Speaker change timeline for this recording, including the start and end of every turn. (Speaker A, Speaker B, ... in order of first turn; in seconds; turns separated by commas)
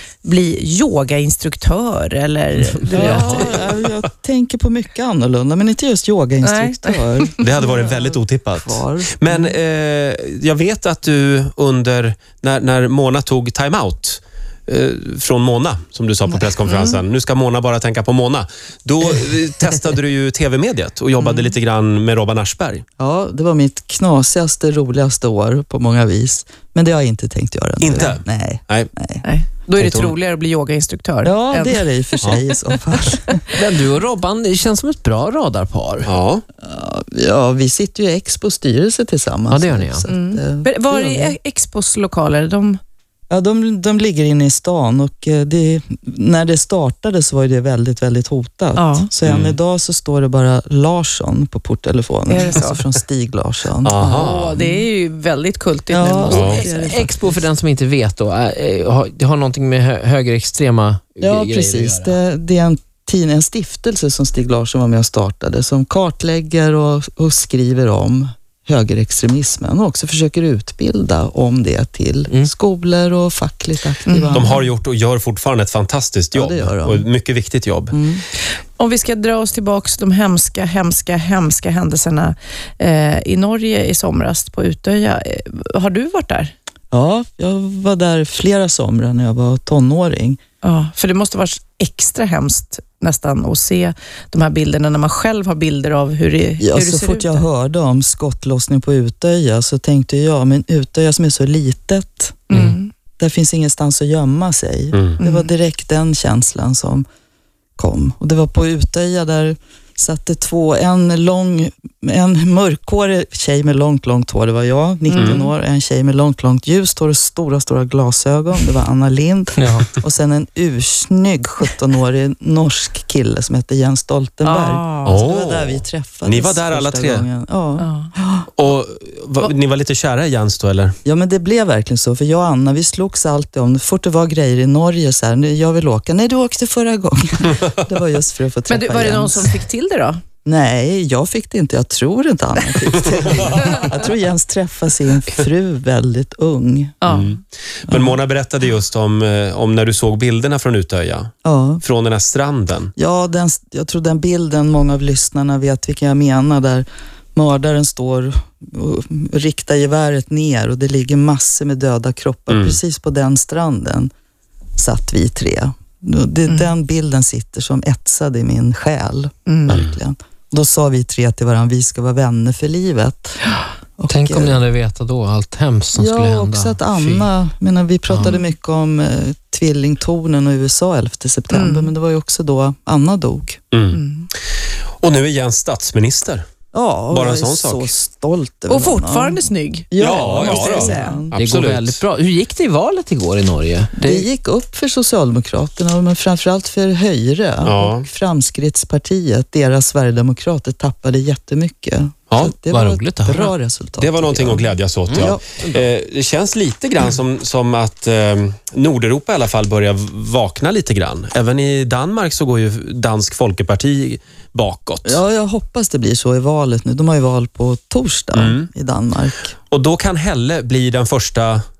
Speaker A: 0.2-3.6, Speaker B: 2.9-9.2, Speaker C: 2.9-3.6, Speaker D: 3.2-3.5, Speaker A: 6.4-7.3, Speaker D: 7.4-22.8, Speaker A: 16.6-17.0, Speaker B: 23.0-29.2, Speaker D: 27.8-28.9, Speaker A: 29.2-32.9, Speaker D: 29.8-30.1, Speaker B: 31.2-33.4, Speaker C: 33.5-36.1, Speaker D: 36.0-36.4, Speaker B: 36.6-41.4, Speaker C: 39.5-40.0, Speaker A: 40.0-42.8, Speaker B: 43.3-54.9, Speaker A: 48.8-49.1, Speaker D: 49.2-49.5, Speaker A: 52.3-52.8, Speaker D: 53.8-54.6, Speaker A: 54.0-57.0, Speaker B: 55.9-57.4, Speaker D: 56.3-56.6, Speaker C: 56.7-62.1, Speaker B: 61.2-74.5, Speaker A: 74.1-74.5, Speaker D: 74.3-78.0, Speaker B: 76.3-77.1, Speaker B: 77.9-78.2, Speaker A: 78.8-86.5, Speaker B: 86.9-90.4, Speaker A: 90.6-97.5, Speaker B: 96.6-107.0, Speaker A: 102.5-102.9, Speaker D: 104.9-105.2, Speaker A: 105.2-105.5, Speaker B: 107.8-128.5, Speaker A: 115.1-115.5, Speaker C: 119.6-119.9, Speaker A: 124.4-125.2, Speaker D: 125.0-127.2, Speaker A: 127.8-128.1, Speaker D: 128.6-130.9, Speaker B: 131.0-139.6, Speaker A: 138.7-140.2, Speaker B: 140.4-147.0, Speaker A: 147.0-147.3, Speaker D: 147.1-151.3, Speaker B: 147.9-148.2, Speaker B: 151.4-151.8, Speaker D: 151.8-152.9, Speaker B: 152.9-164.1, Speaker D: 162.5-162.8, Speaker B: 164.8-173.4, Speaker A: 166.5-166.7, Speaker A: 169.5-169.8, Speaker D: 169.7-170.0, Speaker B: 174.0-174.6, Speaker C: 174.1-177.3, Speaker B: 175.9-183.6, Speaker A: 181.5-181.9, Speaker D: 183.7-184.0, Speaker A: 183.9-184.3, Speaker D: 185.0-186.5, Speaker B: 186.7-191.3, Speaker D: 187.1-187.9, Speaker A: 188.7-191.2, Speaker D: 190.0-192.0, Speaker C: 191.3-194.2, Speaker B: 194.0-205.4, Speaker D: 197.6-198.1, Speaker C: 202.7-203.5, Speaker D: 204.0-215.2, Speaker C: 205.1-205.7, Speaker B: 215.0-219.6, Speaker D: 218.3-218.7, Speaker D: 219.7-221.6